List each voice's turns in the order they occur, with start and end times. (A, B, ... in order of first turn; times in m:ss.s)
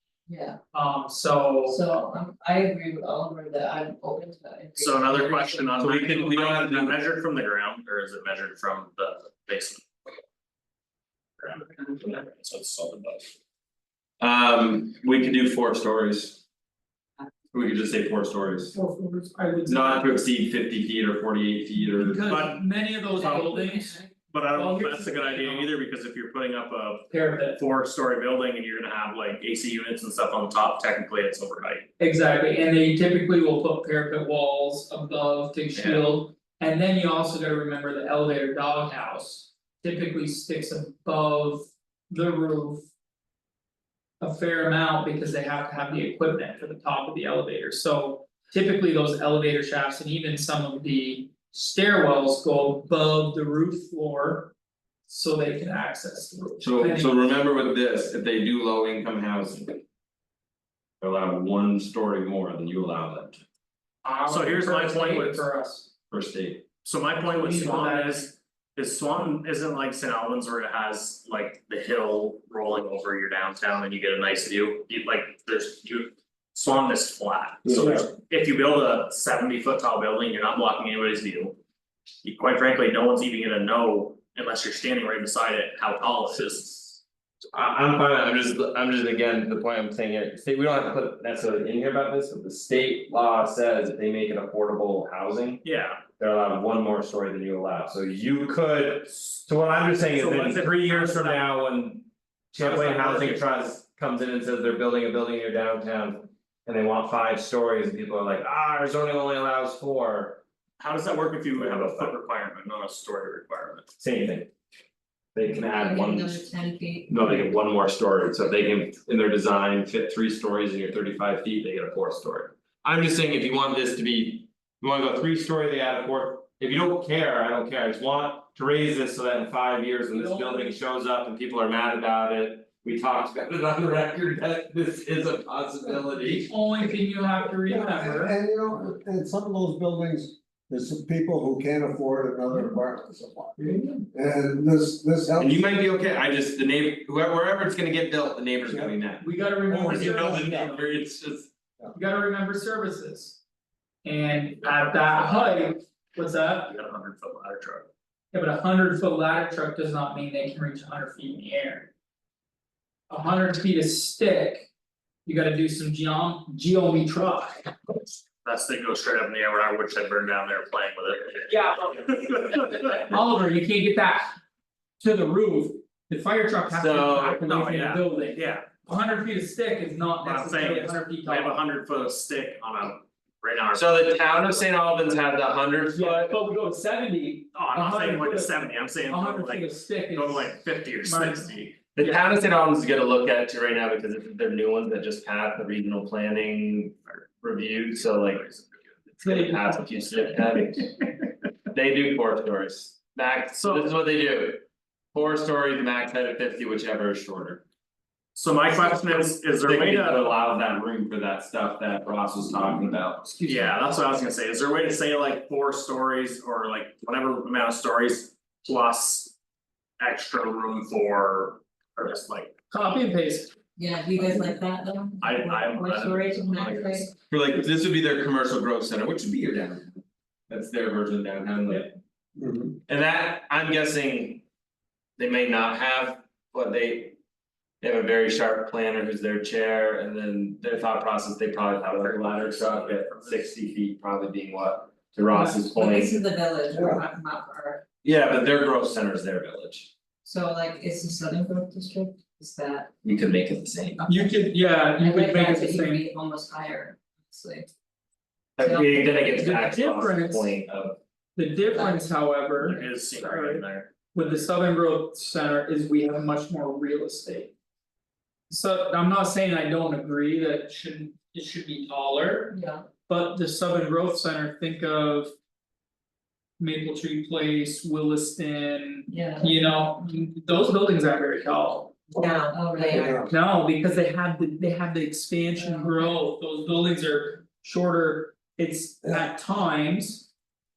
0:00.3-0:00.6 A
0:00.7-0:01.8 B
0:01.6-0:05.8 A
0:04.8-0:09.9 C
0:05.8-0:07.0 D
0:11.4-0:13.3 C
0:14.2-0:16.4 D
0:17.5-0:18.7 D
0:18.7-0:20.1 B
0:19.7-0:22.3 D
0:21.8-0:24.0 B
0:22.3-0:22.6 C
0:23.0-0:24.1 A
0:24.3-0:31.9 C
0:24.5-0:25.7 B
0:27.1-0:27.6 B
0:32.0-0:42.9 B
0:35.8-0:36.0 D
0:44.2-0:54.5 B
0:55.1-0:57.2 B
0:56.6-0:59.8 D
1:01.0-1:03.4 D
1:04.0-1:05.9 B
1:04.2-1:05.4 C
1:06.1-1:06.6 D
1:06.8-1:21.6 C
1:07.2-1:08.3 B
1:22.2-1:27.0 C
1:27.5-1:35.6 D
1:35.6-1:36.0 C
1:36.2-1:50.4 D
1:40.0-1:41.4 C
1:42.6-1:43.5 C
1:50.8-1:53.9 C
1:51.5-1:52.1 D
1:54.0-1:54.5 D
1:55.3-1:56.4 D
1:55.6-1:57.4 A
1:57.1-2:16.5 D
2:10.1-2:10.8 B
2:16.1-2:18.3 B
2:17.7-2:25.6 E
2:23.6-2:24.0 D
2:25.4-2:29.2 D
2:29.2-2:30.9 B
2:29.8-2:31.5 D
2:31.9-2:33.4 B
2:34.0-2:36.7 B
2:34.6-2:35.7 C
2:36.7-2:37.9 C
2:38.3-2:41.9 B
2:43.1-2:44.7 B
2:45.2-2:47.8 B
2:48.4-2:53.0 C
2:51.5-2:54.3 B
2:55.0-3:01.6 B
2:56.7-2:57.4 D
2:57.4-2:58.7 C
3:00.2-3:04.0 C
3:03.7-3:06.4 D
3:05.9-3:12.2 B
3:07.5-3:11.8 C
3:11.9-3:18.4 D
3:18.1-3:18.9 C
3:19.2-3:20.3 B
3:19.2-3:21.0 D
3:21.7-3:27.6 D
3:23.6-3:23.9 C
3:28.3-3:30.3 C
3:29.6-3:33.5 D
3:33.4-3:33.7 B
3:33.4-3:39.3 C
3:40.0-3:42.5 C
3:42.7-3:43.5 B
3:43.8-3:47.1 A
3:45.2-3:47.1 C
3:47.3-3:51.9 D
3:52.4-3:52.8 E
3:52.8-3:54.4 D
3:55.2-3:57.2 D
3:57.8-4:06.2 D
4:01.8-4:03.5 C
4:05.3-4:05.6 B
4:05.6-4:07.8 A
4:06.7-4:07.0 E
4:08.0-4:09.9 D
4:10.2-4:12.9 A
4:13.0-4:14.0 D
4:14.0-4:14.2 A
4:14.0-4:16.0 B
4:15.0-4:17.7 A
4:18.6-4:21.0 D
4:18.6-4:19.6 A
4:19.4-4:20.5 B
4:21.4-4:27.5 B
4:21.7-4:22.1 A
4:22.6-4:23.9 C
4:28.5-4:32.6 B
4:32.5-4:32.9 A
4:33.1-4:35.3 B
4:36.6-4:42.0 B
4:39.1-4:39.5 A
4:42.2-4:43.3 A
4:42.8-4:50.3 B
4:42.9-4:43.3 E
4:45.6-4:46.0 A